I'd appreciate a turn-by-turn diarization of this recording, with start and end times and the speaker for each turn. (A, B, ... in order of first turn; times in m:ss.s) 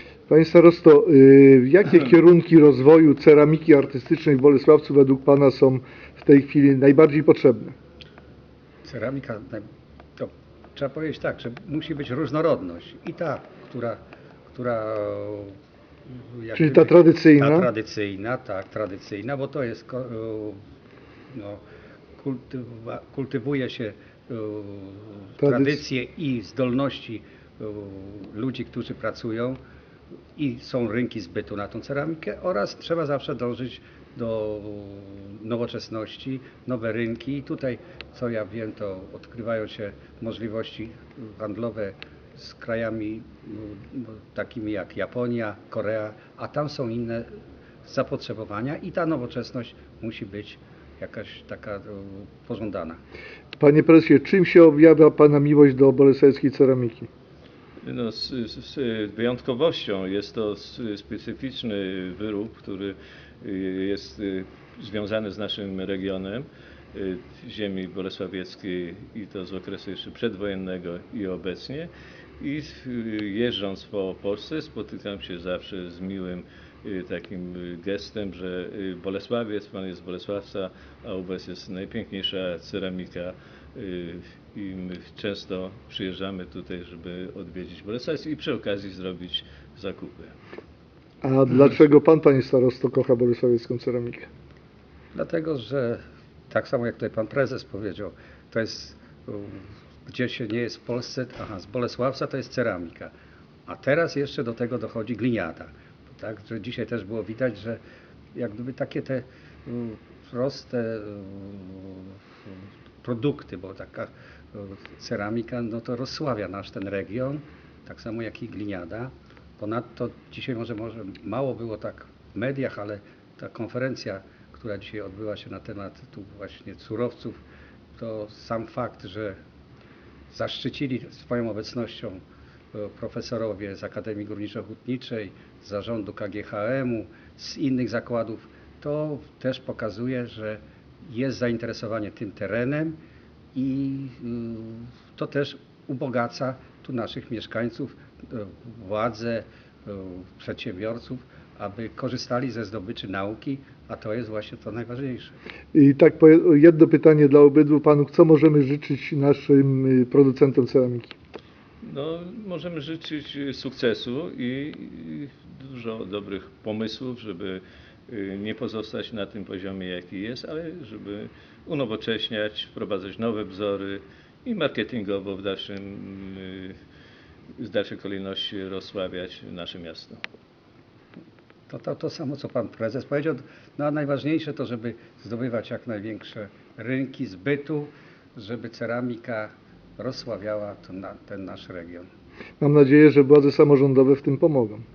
0:00.3-0:07.7 A
0:08.8-0:09.6 B
0:10.2-0:14.0 B
0:14.5-0:15.6 B
0:16.1-0:20.6 B
0:16.6-0:17.7 A
0:21.3-0:21.6 B
0:22.2-0:29.6 B
0:25.4-0:25.7 A
0:30.4-0:47.3 B
0:47.8-0:53.0 B
0:53.6-0:57.1 A
0:57.8-1:30.3 C
1:31.2-1:34.3 A
1:35.1-1:43.1 B
1:43.7-1:47.8 B
1:48.3-1:52.2 B
1:53.0-2:07.4 B
2:08.0-2:09.4 B
2:10.3-2:12.2 B
2:12.7-2:23.0 B
2:23.5-2:35.4 B
2:35.7-2:41.1 A
2:41.8-2:56.8 C
2:57.6-3:00.2 C
3:01.7-3:12.1 B
3:12.6-3:14.8 A